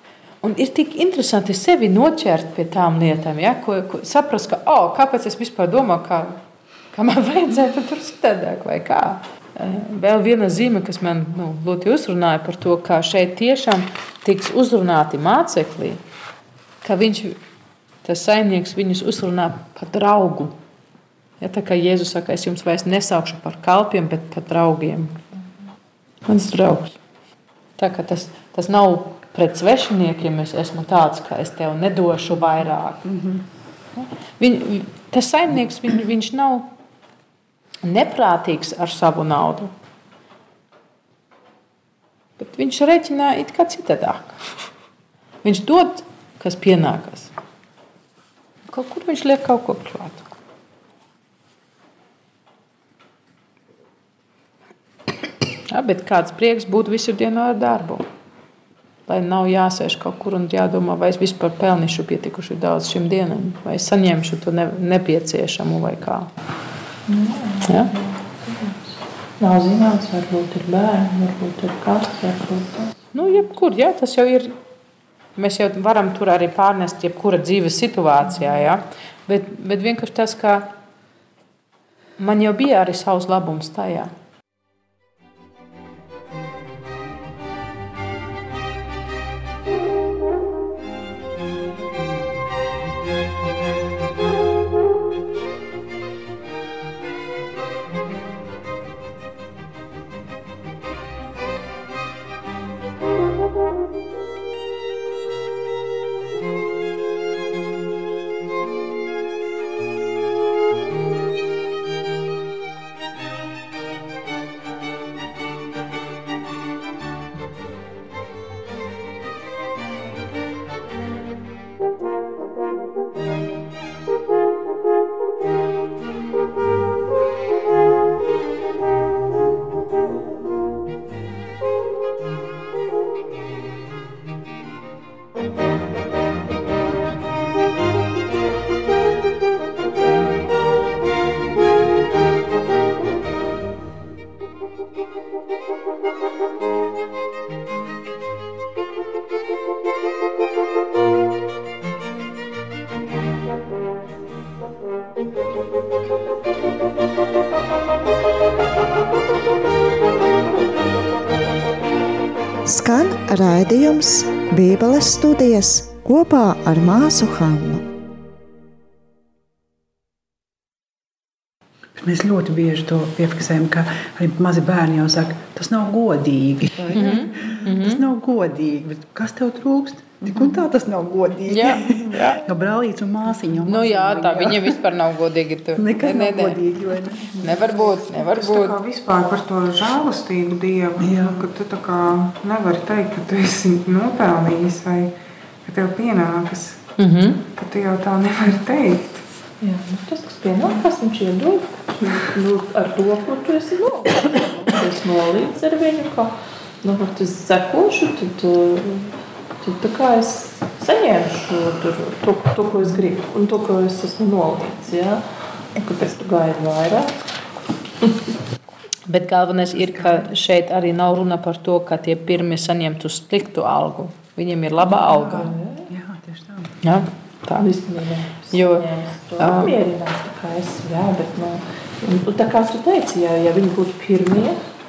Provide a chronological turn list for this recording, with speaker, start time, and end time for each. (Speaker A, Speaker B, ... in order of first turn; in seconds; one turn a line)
Speaker A: 0.4-6.4
Speaker A: 6.9-16.0
Speaker A: 16.8-17.4
Speaker A: 18.0-20.5
Speaker A: 21.4-25.2
Speaker A: 26.2-27.0
Speaker A: 27.8-33.1
Speaker A: 34.0-36.7
Speaker A: 37.8-39.7
Speaker A: 42.4-44.4
Speaker A: 45.4-47.3
Speaker A: 48.7-50.3
Speaker A: 55.7-58.0
Speaker A: 59.1-66.3
Speaker B: 67.1-72.9
Speaker A: 67.6-67.9
Speaker A: 73.1-74.5
Speaker A: 75.4-80.7
Speaker A: 82.2-84.1
Speaker C: 162.6-167.8
Speaker D: 172.0-184.9
Speaker A: 176.9-178.0
Speaker A: 181.5-182.4
Speaker A: 183.6-186.6
Speaker D: 185.8-188.0
Speaker A: 187.4-188.8
Speaker E: 188.2-195.1
Speaker D: 191.0-191.6
Speaker E: 195.6-196.8
Speaker A: 197.0-197.4
Speaker E: 197.5-199.2
Speaker B: 199.6-215.2
Speaker B: 215.7-217.1
Speaker A: 219.1-225.5
Speaker D: 219.8-220.3
Speaker D: 224.8-226.8
Speaker B: 225.3-225.8
Speaker A: 226.8-227.7
Speaker B: 227.5-234.6
Speaker A: 228.5-229.8